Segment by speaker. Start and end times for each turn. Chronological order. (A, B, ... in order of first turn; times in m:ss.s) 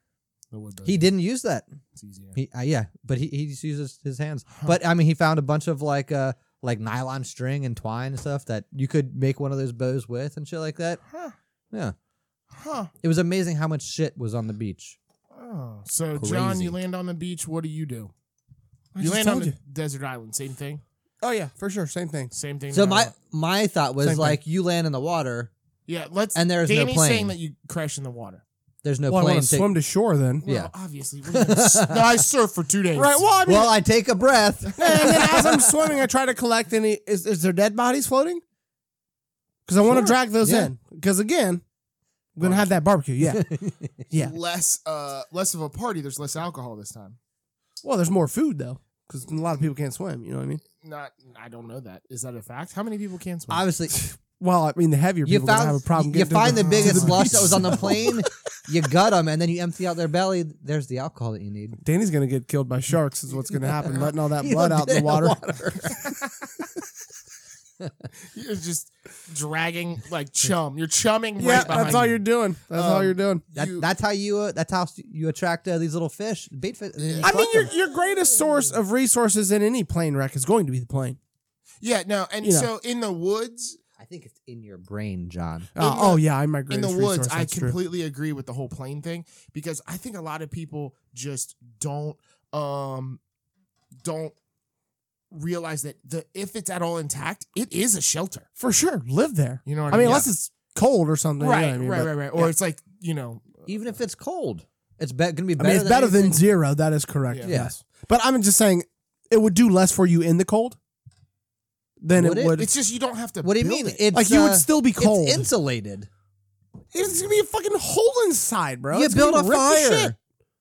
0:00.5-0:01.0 A
0:00.8-0:01.7 B
0:01.9-0:02.4 A
0:02.3-0:11.0 B
0:11.1-0:11.3 A
0:12.5-0:12.9 A
0:13.0-0:15.0 B
0:15.3-0:18.1 A
0:16.2-0:16.8 B
0:19.0-0:19.6 C
0:19.0-0:20.8 A
0:21.2-0:22.3 C
0:22.3-0:23.1 A
0:22.7-0:25.5 B
0:24.0-0:24.4 C
0:25.9-0:28.4 A
0:26.3-0:27.3 B
0:28.8-0:29.7 B
0:29.1-0:30.4 C
0:30.4-0:33.2 A
0:30.4-0:30.7 B
0:31.3-0:32.2 B
0:32.9-0:33.7 C
0:33.4-0:35.3 B
0:34.8-0:35.6 A
0:34.8-0:38.4 C
0:39.6-0:41.6 C
0:39.9-0:40.7 B
0:42.4-0:43.4 C
0:42.4-0:42.8 A
0:43.2-0:43.9 B
0:44.1-0:44.3 C
0:44.1-0:47.2 A
0:47.8-0:50.6 C
0:50.8-0:53.6 A
0:53.5-0:54.0 B
0:54.2-0:58.1 C
0:55.2-1:01.8 B
0:56.5-0:58.1 A
1:01.8-1:05.4 C
1:03.8-1:06.2 B
1:06.0-1:06.4 A
1:08.3-1:13.8 A
1:11.4-1:13.4 C
1:11.5-1:12.0 B
1:13.5-1:17.7 B
1:17.0-1:17.5 A
1:17.2-1:21.2 C
1:21.8-1:23.8 A
1:22.4-1:22.7 C
1:24.0-1:25.7 B
1:25.8-1:27.8 C
1:25.8-1:33.2 A
1:34.0-1:34.3 A
1:35.3-1:38.5 A
1:38.6-1:42.5 C
1:39.6-1:40.3 A
1:41.4-1:43.7 A
1:43.6-1:46.4 B
1:45.6-1:50.8 C
1:47.5-1:47.7 B
1:52.0-1:52.7 C
1:52.1-1:52.6 B
1:52.6-1:54.0 A
1:53.4-1:56.1 B
1:54.1-1:55.5 C
1:56.9-2:00.1 C
1:58.9-2:00.1 B